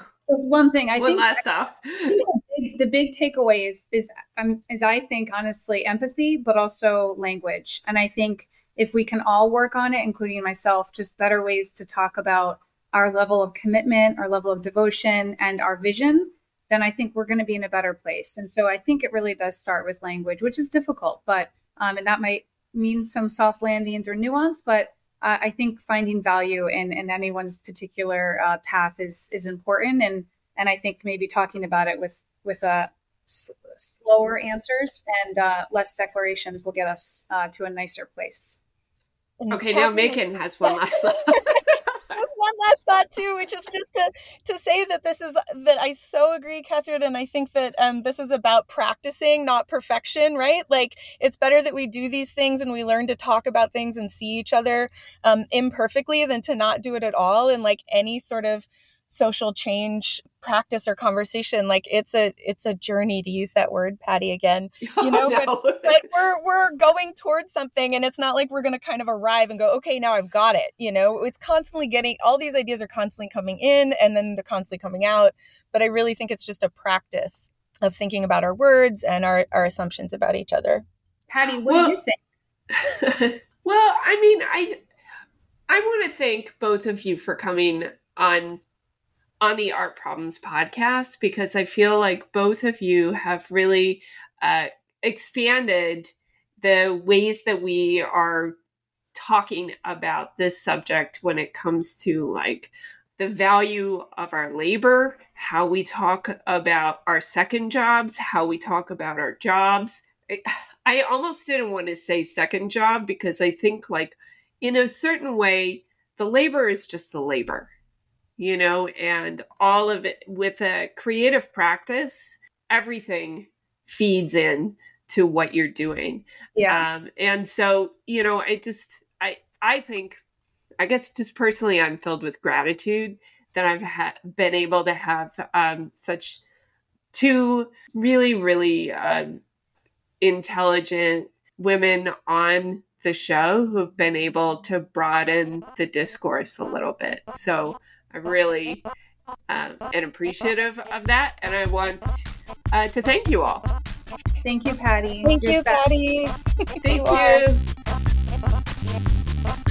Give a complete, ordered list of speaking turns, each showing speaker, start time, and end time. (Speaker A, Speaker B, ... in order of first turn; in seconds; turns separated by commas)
Speaker A: 0.3-1.4, Speaker B: 1.0-2.2, Speaker A: 2.1-38.6, Speaker C: 39.4-41.6, Speaker B: 39.5-42.1, Speaker C: 42.1-80.8, Speaker B: 64.9-66.0, Speaker A: 81.3-82.2, Speaker B: 81.7-81.9, Speaker B: 82.7-84.8, Speaker B: 85.7-88.6, Speaker B: 89.4-98.5, Speaker B: 99.1-117.7, Speaker B: 118.4-130.2, Speaker A: 126.5-126.8, Speaker B: 130.8-136.4, Speaker B: 137.1-139.4, Speaker B: 140.2-148.8, Speaker B: 149.5-153.7, Speaker A: 154.4-155.9, Speaker C: 155.2-157.4, Speaker B: 156.8-157.6